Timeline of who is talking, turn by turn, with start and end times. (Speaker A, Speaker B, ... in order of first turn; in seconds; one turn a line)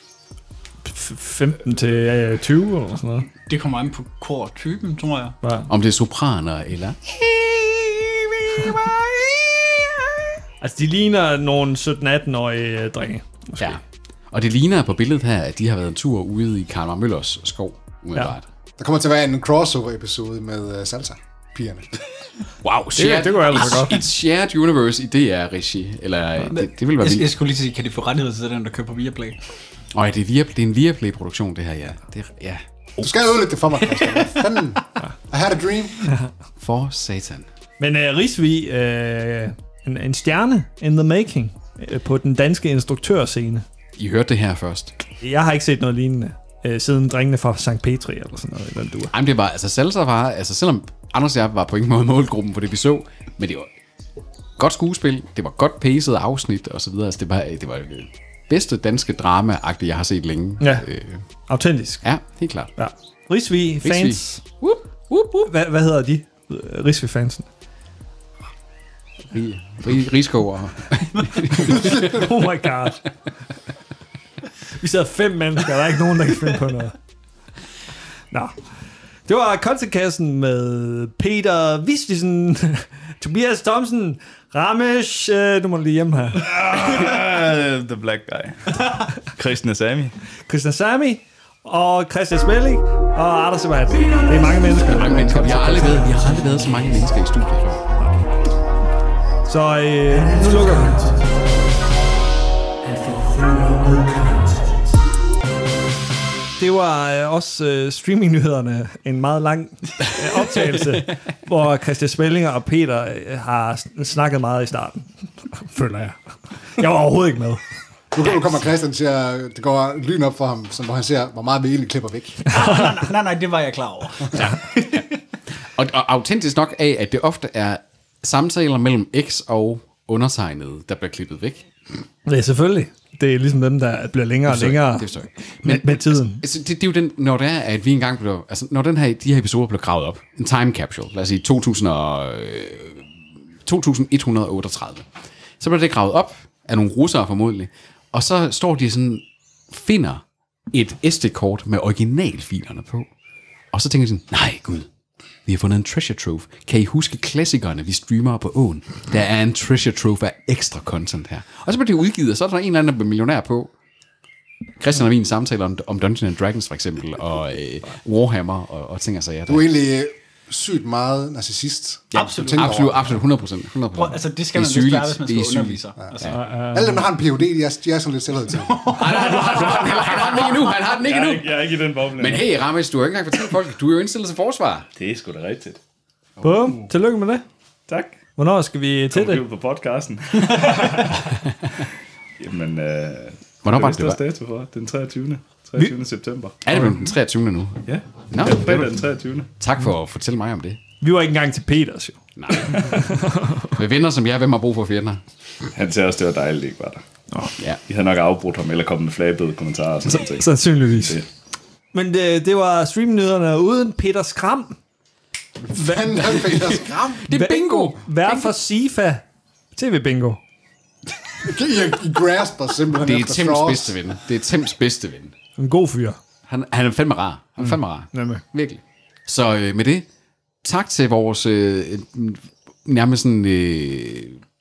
Speaker A: 0.9-3.3
Speaker B: 3.5-5.4
Speaker A: 5.4-5.7
Speaker C: 5.7-9.6
Speaker A: 10.6-13.8
Speaker C: 13.6-18.4
Speaker D: 18.8-22.0
Speaker C: 22.6-27.3
Speaker A: 23.0-24.0
Speaker B: 26.5-29.4
Speaker C: 29.9-33.4
Speaker D: 33.0-36.1
Speaker C: 36.6-37.5
Speaker A: 37.8-43.6
Speaker C: 44.0-44.9
Speaker A: 45.2-49.1
Speaker C: 49.1-53.7
Speaker C: 54.6-61.2
Speaker A: 60.6-60.9
Speaker A: 61.5-62.1
Speaker C: 62.0-62.7
Speaker A: 62.8-64.4
Speaker C: 63.8-65.5
Speaker A: 65.5-67.5
Speaker C: 69.3-72.2
Speaker A: 71.6-73.0
Speaker A: 74.8-77.0
Speaker A: 79.3-86.5
Speaker E: 86.4-90.1
Speaker A: 90.5-96.5
Speaker C: 94.9-97.8
Speaker A: 98.0-98.2
Speaker A: 99.5-101.3
Speaker A: 102.8-104.8
Speaker A: 106.6-116.2
Speaker A: 116.8-117.6
Speaker D: 118.1-122.5
Speaker B: 122.5-125.0
Speaker C: 124.3-125.1
Speaker C: 125.8-131.7
Speaker A: 132.3-135.1
Speaker C: 134.5-143.1
Speaker A: 135.6-136.4
Speaker C: 143.6-145.1
Speaker C: 145.6-153.1
Speaker C: 153.7-154.9
Speaker C: 155.5-163.7
Speaker C: 164.8-169.7
Speaker D: 169.5-173.1
Speaker C: 172.1-176.4
Speaker B: 172.1-172.9
Speaker B: 173.9-176.5
Speaker A: 176.3-177.1
Speaker D: 176.7-179.3
Speaker B: 178.7-179.8
Speaker C: 178.9-181.5
Speaker E: 179.9-182.5
Speaker C: 182.2-184.9
Speaker E: 185.0-185.8
Speaker A: 186.4-187.4
Speaker E: 187.9-188.2
Speaker A: 188.4-189.4
Speaker E: 189.1-191.4
Speaker E: 192.4-196.6
Speaker C: 193.6-194.2
Speaker C: 196.6-198.9
Speaker E: 197.9-199.5
Speaker C: 199.6-200.8
Speaker A: 201.0-203.8
Speaker C: 202.4-205.2
Speaker E: 205.8-207.0
Speaker E: 207.9-210.5
Speaker A: 210.1-211.2
Speaker A: 211.9-214.8
Speaker D: 215.7-217.3
Speaker C: 216.2-218.6
Speaker A: 217.3-219.2
Speaker A: 219.8-220.4
Speaker D: 221.4-224.0
Speaker C: 222.9-225.3
Speaker A: 225.6-226.2
Speaker C: 226.5-230.1
Speaker A: 228.1-228.4
Speaker C: 230.6-234.4